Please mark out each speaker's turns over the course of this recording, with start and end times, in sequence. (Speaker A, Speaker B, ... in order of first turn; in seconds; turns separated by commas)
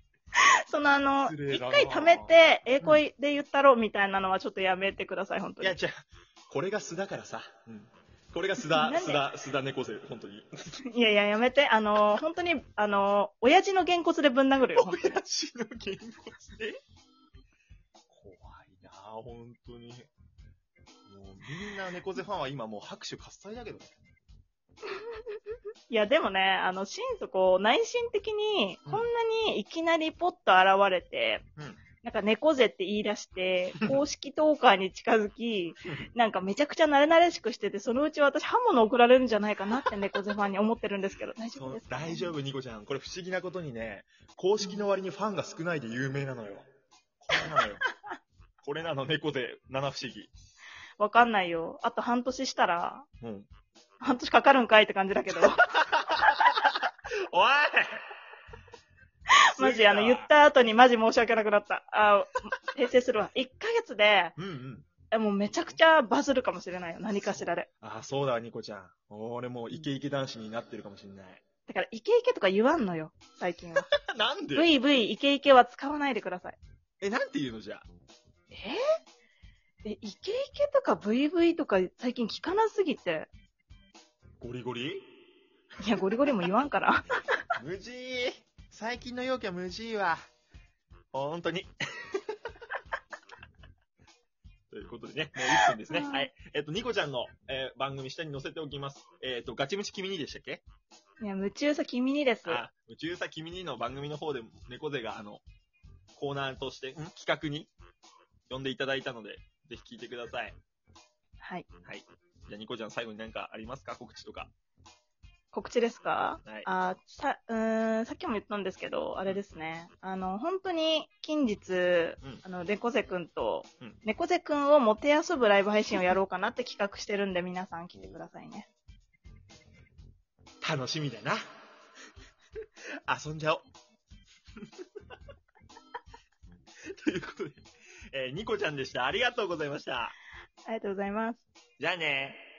Speaker A: 0.3-5.8, Speaker B: 1.2-3.0, Speaker B: 5.6-10.7, Speaker A: 8.6-9.2, Speaker A: 10.9-15.2, Speaker B: 14.7-16.8, Speaker B: 18.1-20.1, Speaker B: 21.1-24.0, Speaker A: 25.9-31.4, Speaker A: 32.0-42.3, Speaker B: 41.5-46.6, Speaker B: 47.2-47.8, Speaker B: 48.6-50.3, Speaker A: 51.0-53.1, Speaker B: 53.2-53.5, Speaker A: 54.0-55.6, Speaker B: 55.7-58.0, Speaker A: 59.5-64.3, Speaker B: 59.5-60.3, Speaker B: 64.4-64.9, Speaker A: 65.1-67.7, Speaker B: 65.5-65.8, Speaker B: 67.8-71.4, Speaker A: 71.7-73.9, Speaker B: 74.0-74.7, Speaker A: 74.5-76.6, Speaker B: 77.0-77.8, Speaker A: 78.5-78.8, Speaker A: 79.8-83.3, Speaker B: 84.4-85.0, Speaker A: 85.8-87.4, Speaker B: 87.6-90.2, Speaker B: 91.1-92.2, Speaker B: 94.7-100.6, Speaker A: 95.6-96.3, Speaker A: 101.2-102.6, Speaker B: 102.5-105.4, Speaker B: 106.1-107.7, Speaker B: 108.5-110.6, Speaker A: 111.4-111.7, Speaker B: 111.8-114.5, Speaker A: 115.5-128.7, Speaker B: 130.6-131.4, Speaker B: 133.1-133.6, Speaker B: 136.9-140.1, Speaker A: 140.7-141.4, Speaker B: 141.8-142.4